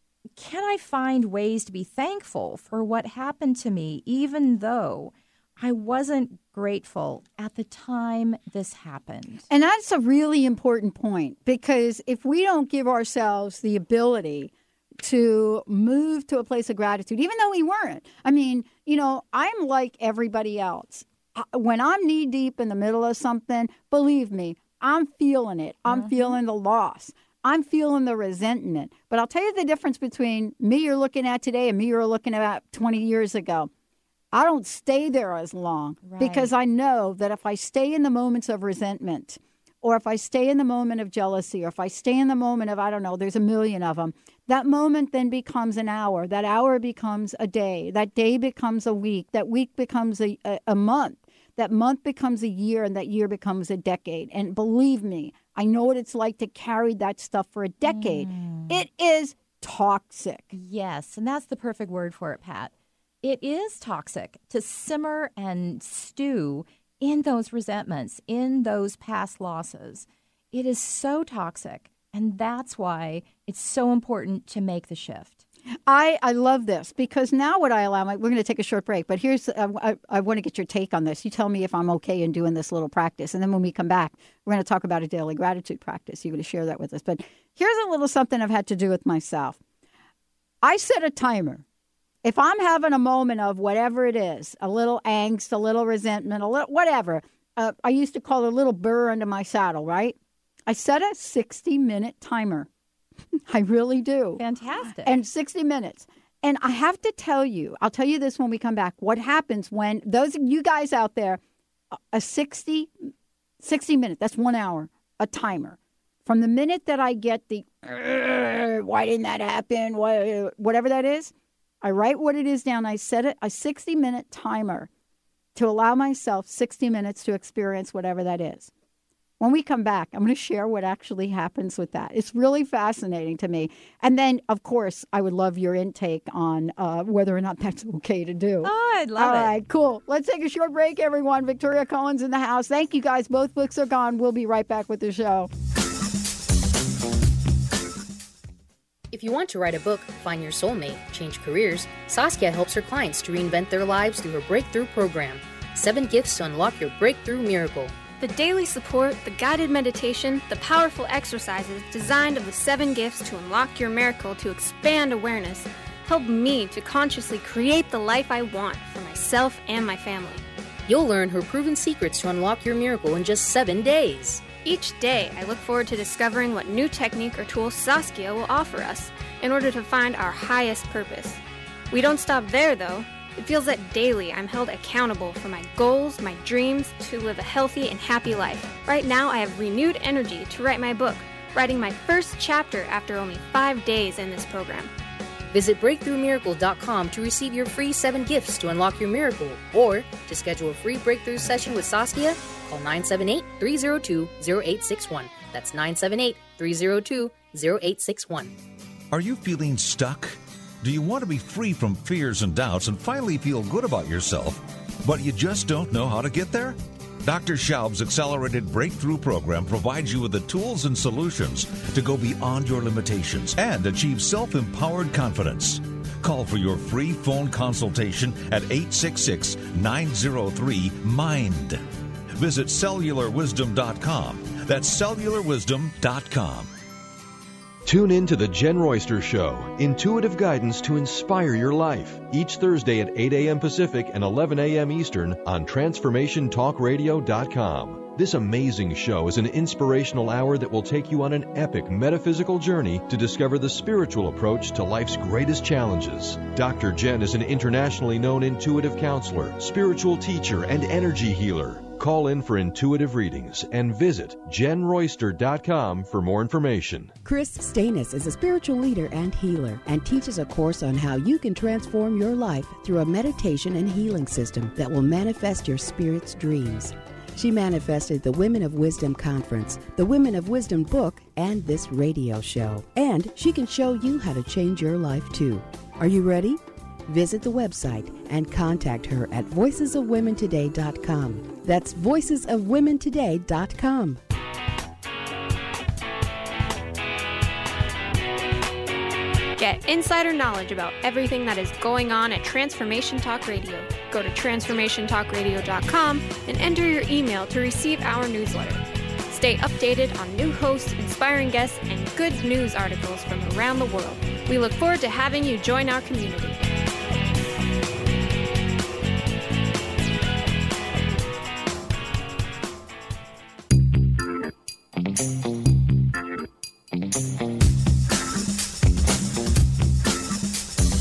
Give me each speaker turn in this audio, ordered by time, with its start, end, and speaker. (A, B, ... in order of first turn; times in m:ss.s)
0:00.4-0:09.4 A
0:09.5-0:33.7 B
0:25.9-0:26.4 A
0:34.3-1:00.5 B
0:36.0-0:36.5 A
0:57.8-0:58.8 A
1:00.5-1:02.7 A
1:03.2-1:15.4 A
1:15.9-1:29.6 B
1:30.6-1:31.6 B
1:32.2-1:42.7 B
1:43.5-1:44.4 B
1:44.4-1:45.2 A
1:45.0-1:51.4 B
1:51.9-1:52.9 B
1:53.6-2:04.9 B
2:05.5-2:08.7 B
2:09.4-2:25.5 B
2:18.6-2:19.5 A
2:29.1-2:38.0 C
2:38.2-2:50.4 D
2:50.9-2:54.4 C
2:54.6-3:01.4 D
3:01.9-3:14.9 D
3:15.5-3:28.5 C
3:29.1-3:51.8 E
3:52.4-3:56.7 E
3:57.8-4:27.2 F
4:27.2-4:54.2 G
4:59.6-5:16.7 D